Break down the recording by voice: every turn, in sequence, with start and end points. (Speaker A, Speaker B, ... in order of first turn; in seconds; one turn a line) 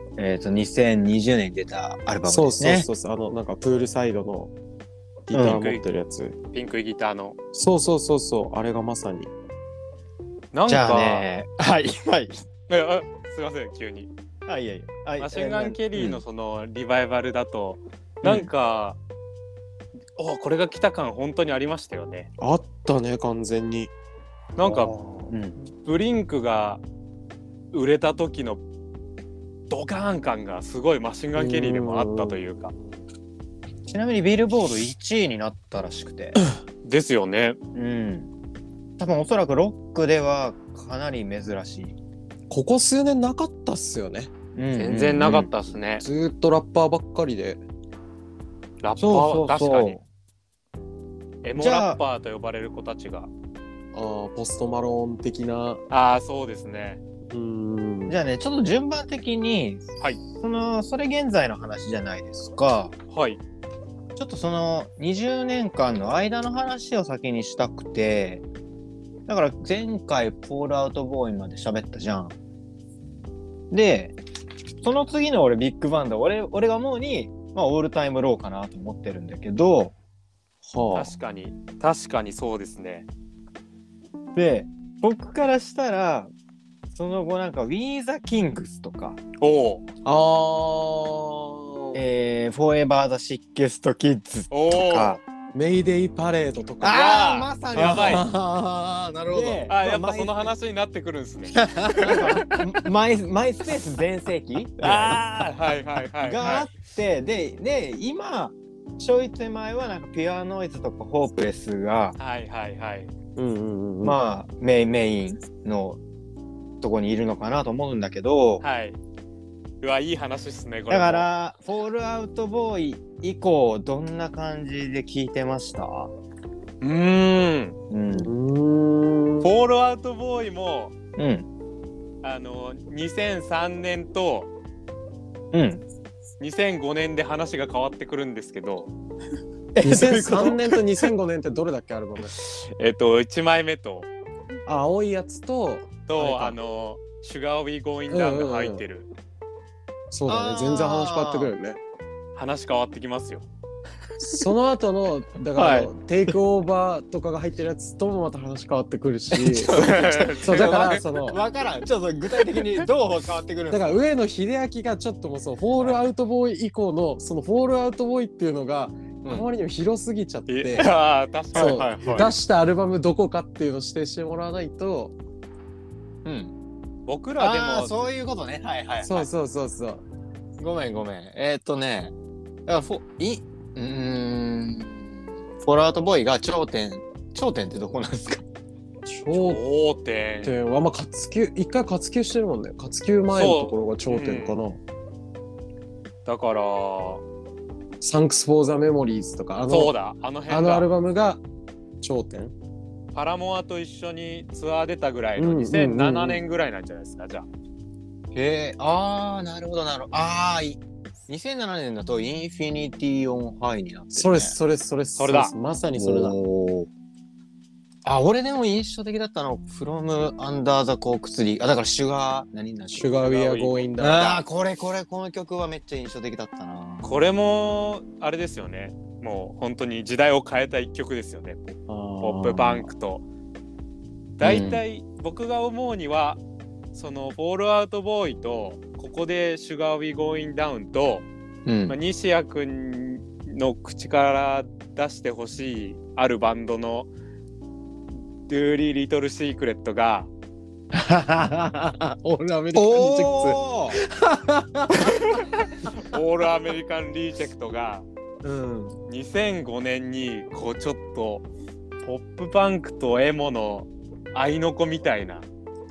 Speaker A: 0.2-2.9
Speaker B: 2.2-4.5
Speaker B: 5.3-6.3
Speaker A: 5.3-5.6
Speaker C: 5.4-5.8
Speaker C: 6.5-7.4
Speaker B: 7.5-9.3
Speaker C: 10.5-11.2
Speaker A: 10.7-12.3
Speaker C: 12.7-14.1
Speaker A: 14.4-16.2
Speaker C: 15.2-19.0
Speaker A: 18.2-18.5
Speaker C: 20.2-22.3
Speaker B: 22.4-23.9
Speaker C: 24.6-24.9
Speaker A: 24.6-25.6
Speaker C: 25.6-26.8
Speaker C: 27.7-28.6
Speaker C: 29.7-32.7
Speaker B: 31.4-33.0
Speaker A: 33.9-36.4
Speaker C: 36.8-37.6
Speaker A: 37.7-38.3
Speaker A: 39.0-42.0
Speaker B: 42.5-44.3
Speaker A: 44.5-45.5
Speaker C: 44.8-46.0
Speaker B: 46.0-47.6
Speaker C: 48.8-50.0
Speaker A: 49.0-50.0
Speaker C: 51.4-53.3
Speaker A: 51.6-52.0
Speaker B: 53.9-55.8
Speaker C: 55.9-57.0
Speaker B: 57.3-58.1
Speaker A: 58.1-63.0
Speaker C: 63.1-63.4
Speaker A: 64.2-68.4
Speaker A: 69.3-72.3
Speaker A: 73.7-74.2
Speaker A: 74.8-79.9
Speaker B: 80.6-81.1
Speaker C: 80.9-83.1
Speaker A: 84.3-86.3
Speaker A: 86.9-89.2
Speaker C: 89.4-89.8
Speaker B: 90.0-92.0
Speaker A: 91.9-95.2
Speaker C: 94.5-95.2
Speaker B: 95.5-97.1
Speaker A: 96.8-98.3
Speaker C: 96.9-98.2
Speaker B: 97.7-99.7
Speaker A: 99.3-100.5
Speaker C: 99.7-102.6
Speaker A: 101.7-105.2
Speaker C: 104.8-106.7
Speaker A: 106.2-112.2
Speaker C: 112.2-113.1
Speaker B: 113.3-114.2
Speaker A: 114.0-116.0
Speaker A: 116.8-118.6
Speaker C: 118.6-119.0
Speaker C: 119.8-121.3
Speaker A: 120.9-126.1
Speaker C: 126.8-127.8
Speaker A: 127.9-128.3
Speaker B: 128.1-129.6
Speaker C: 129.4-130.9
Speaker A: 131.2-131.5
Speaker C: 132.2-134.5
Speaker A: 135.5-135.8
Speaker C: 136.4-138.9
Speaker A: 139.7-140.8
Speaker B: 139.8-142.3
Speaker C: 142.3-144.1
Speaker B: 144.7-146.6
Speaker C: 146.1-149.1
Speaker B: 148.1-148.8
Speaker B: 150.1-151.8
Speaker A: 150.3-151.5
Speaker C: 152.3-153.4
Speaker B: 154.2-159.9
Speaker C: 155.6-155.9
Speaker C: 159.7-161.0
Speaker A: 159.7-164.0
Speaker B: 160.4-161.4
Speaker B: 163.7-170.9
Speaker A: 169.2-169.5
Speaker C: 170.5-172.3
Speaker B: 171.5-175.2
Speaker A: 171.5-172.3
Speaker A: 176.2-176.5
Speaker C: 177.1-178.1
Speaker A: 177.4-179.3
Speaker B: 179.0-180.0
Speaker A: 180.6-182.1
Speaker A: 182.7-185.1
Speaker A: 185.6-188.4
Speaker B: 189.1-189.6
Speaker C: 189.3-190.5
Speaker B: 190.4-194.8
Speaker C: 193.3-194.6
Speaker C: 196.2-197.2
Speaker B: 198.0-199.9
Speaker C: 199.7-200.9
Speaker B: 200.5-201.4
Speaker B: 202.0-202.5
Speaker C: 203.1-207.5
Speaker B: 205.4-206.4
Speaker A: 208.3-214.6
Speaker B: 214.1-216.4
Speaker C: 215.2-215.5
Speaker A: 215.9-216.9
Speaker A: 218.0-223.3
Speaker B: 222.9-224.4
Speaker C: 223.2-223.8
Speaker A: 224.0-227.1
Speaker C: 227.0-233.2
Speaker B: 231.9-232.9
Speaker C: 234.4-236.4
Speaker A: 234.4-234.8
Speaker C: 236.9-241.3
Speaker A: 241.7-242.0
Speaker C: 241.9-247.1
Speaker C: 248.4-250.3
Speaker B: 250.9-255.4
Speaker A: 252.7-254.0
Speaker C: 255.0-258.1
Speaker B: 258.4-259.0
Speaker C: 259.1-261.4
Speaker C: 262.0-265.5